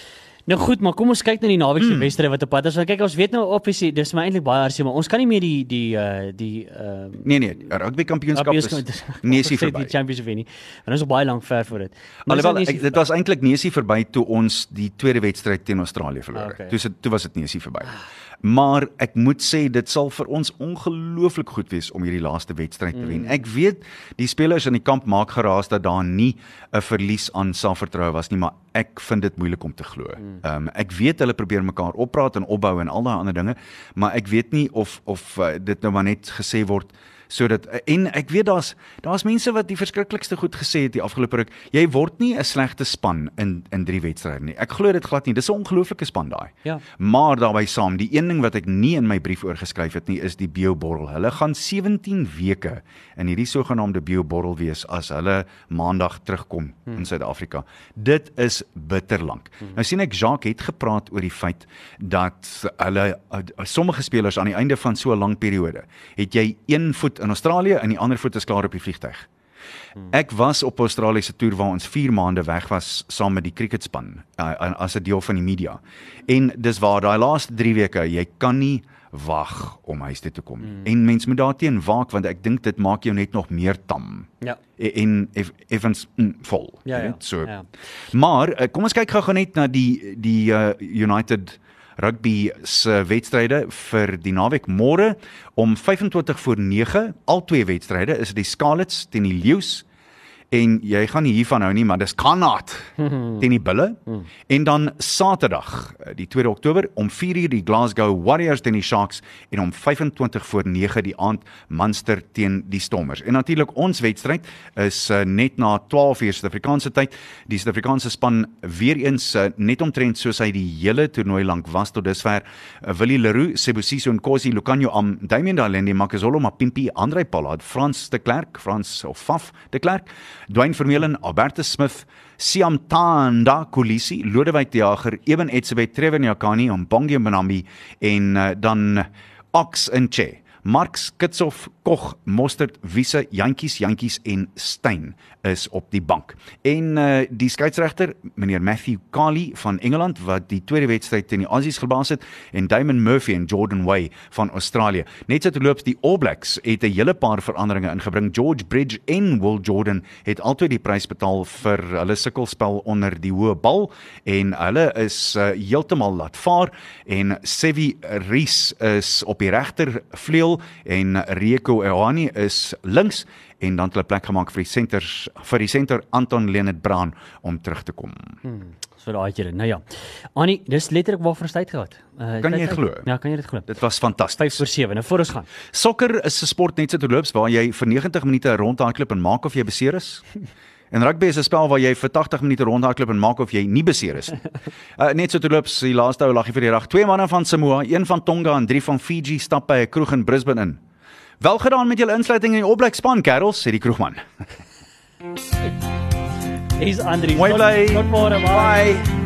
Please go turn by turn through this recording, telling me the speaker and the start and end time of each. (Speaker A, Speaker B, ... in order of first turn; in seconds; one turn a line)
Speaker A: 0.5-7.3
Speaker B: 1.8-2.1
Speaker B: 7.2-9.9
Speaker A: 8.3-13.0
Speaker B: 12.3-69.3
Speaker A: 16.3-16.8
Speaker A: 22.9-23.3
Speaker B: 70.1-87.5
Speaker A: 86.9-87.7
Speaker B: 88.1-99.8
Speaker B: 100.5-178.4
Speaker A: 103.0-103.4
Speaker A: 178.4-179.8
Speaker A: 180.4-183.7
Speaker B: 182.4-183.1
Speaker B: 183.7-184.6
Speaker A: 184.4-185.5
Speaker B: 185.7-190.2
Speaker B: 190.9-194.4
Speaker B: 195.0-200.8
Speaker B: 201.4-204.2
Speaker A: 206.8-208.9
Speaker B: 207.3-209.1